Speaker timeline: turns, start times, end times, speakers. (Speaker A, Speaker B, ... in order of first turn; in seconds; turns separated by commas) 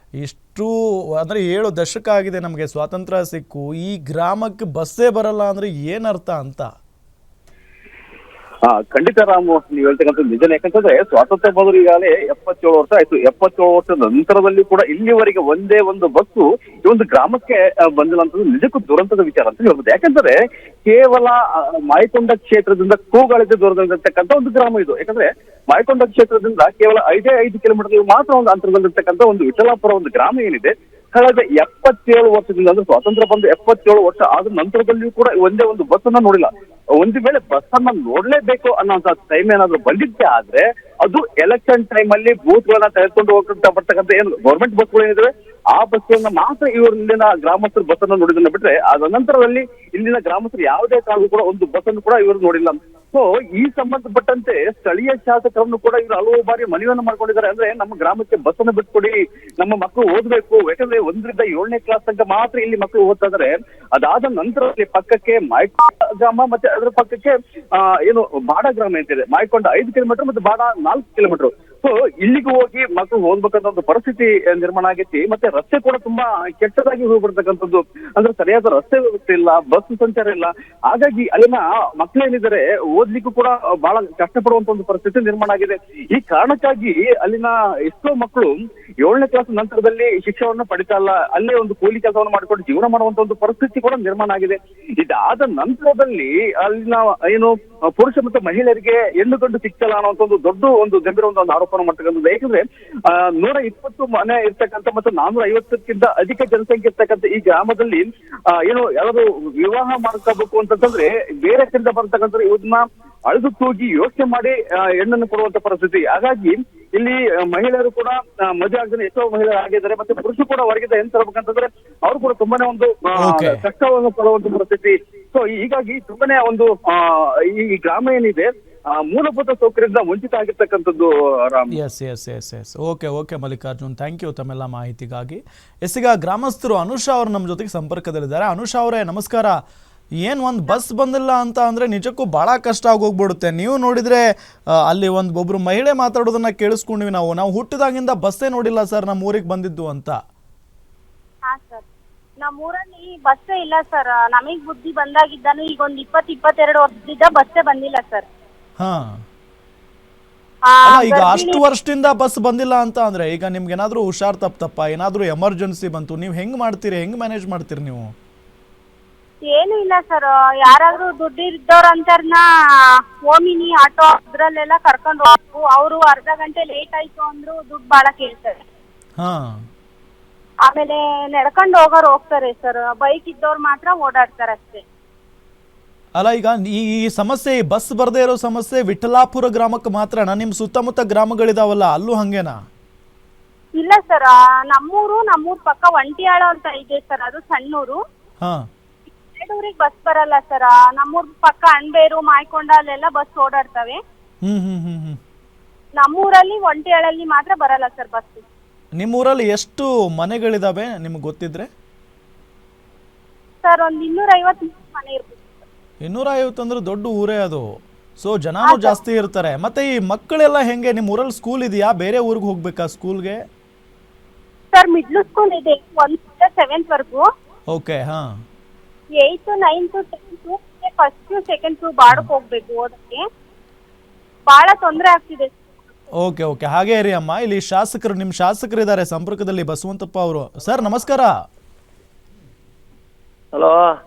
Speaker A: 0.2-6.7, Speaker B: 8.7-131.7, Speaker A: 123.2-123.6, Speaker A: 131.7-139.5, Speaker A: 140.2-144.2, Speaker A: 144.9-150.2, Speaker C: 151.5-151.8, Speaker C: 152.4-158.2, Speaker C: 160.7-161.6, Speaker A: 160.8-168.1, Speaker C: 169.5-172.4, Speaker C: 173.3-178.6, Speaker C: 180.7-184.8, Speaker A: 186.2-192.6, Speaker C: 193.8-198.0, Speaker C: 199.3-204.0, Speaker A: 204.4-205.2, Speaker C: 206.0-208.4, Speaker A: 209.0-211.7, Speaker C: 213.6-215.6, Speaker A: 216.0-217.6, Speaker A: 218.2-223.4, Speaker C: 218.7-219.0, Speaker C: 224.7-227.2, Speaker A: 227.7-228.2, Speaker C: 229.2-233.2, Speaker C: 234.5-235.6, Speaker A: 236.2-241.3